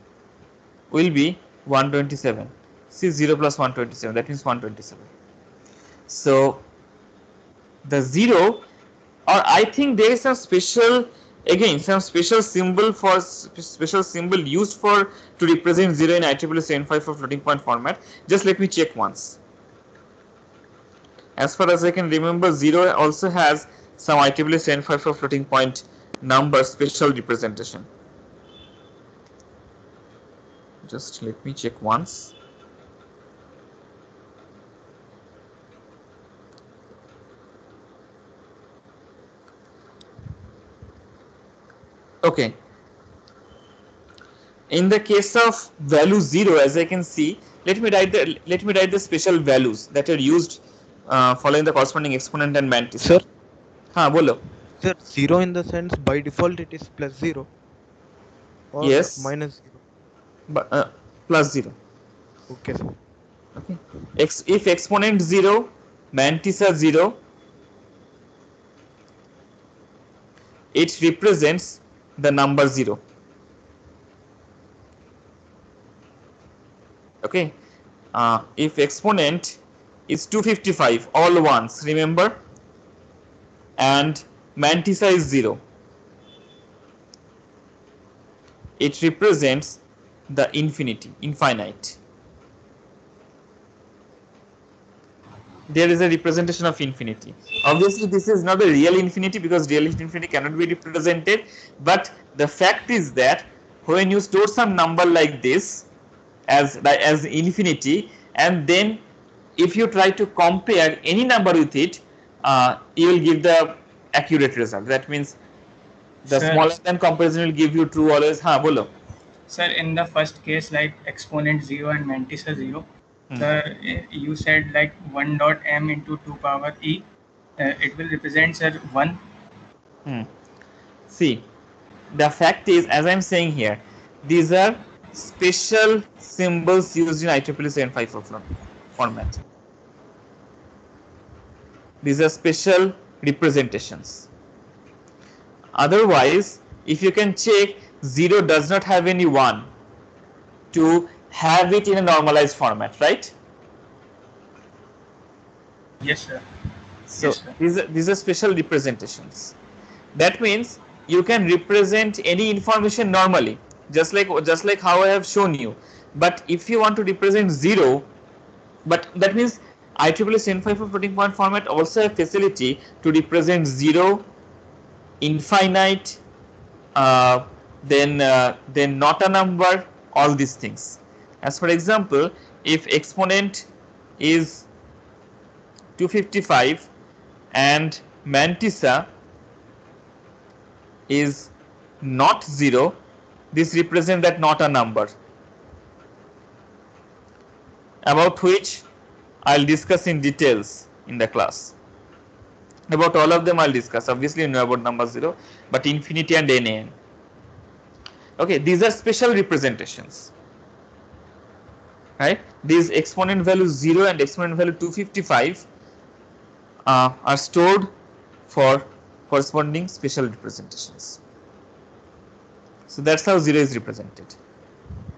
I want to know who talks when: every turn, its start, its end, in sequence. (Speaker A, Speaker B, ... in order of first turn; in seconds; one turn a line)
Speaker A: 0.9-5.1
Speaker A: 6.1-6.6
Speaker A: 7.8-8.6
Speaker A: 9.3-19.4
Speaker A: 21.4-27.9
Speaker A: 30.8-32.3
Speaker A: 42.2-42.5
Speaker A: 44.7-53.2
Speaker B: 53.0-53.2
Speaker A: 53.9-54.4
Speaker B: 54.8-57.5
Speaker B: 58.7-59.8
Speaker A: 58.8-59.3
Speaker A: 60.5-61.7
Speaker B: 62.5-63.0
Speaker A: 63.6-67.2
Speaker A: 70.7-73.0
Speaker A: 77.2-77.5
Speaker A: 78.1-82.4
Speaker A: 83.8-85.6
Speaker A: 88.8-92.0
Speaker A: 95.7-105.9
Speaker A: 106.5-109.0
Speaker A: 109.6-115.4
Speaker A: 116.2-118.9
Speaker C: 116.3-116.7
Speaker C: 119.5-129.2
Speaker A: 131.1-131.4
Speaker A: 132.1-139.4
Speaker A: 142.0-144.3
Speaker A: 145.8-149.7
Speaker A: 150.7-153.3
Speaker C: 156.0-156.4
Speaker C: 157.1-157.5
Speaker A: 157.1-159.5
Speaker A: 160.1-168.1
Speaker A: 168.8-174.3
Speaker A: 175.2-176.2
Speaker A: 176.9-183.7
Speaker A: 184.2-184.7
Speaker A: 186.0-186.9
Speaker A: 187.5-189.1
Speaker A: 191.1-192.9
Speaker A: 193.5-195.1
Speaker A: 198.0-198.8
Speaker A: 199.4-201.7
Speaker A: 202.9-206.9
Speaker A: 208.4-210.3
Speaker A: 212.2-215.7
Speaker A: 216.8-217.9
Speaker A: 218.5-221.2
Speaker A: 222.9-224.4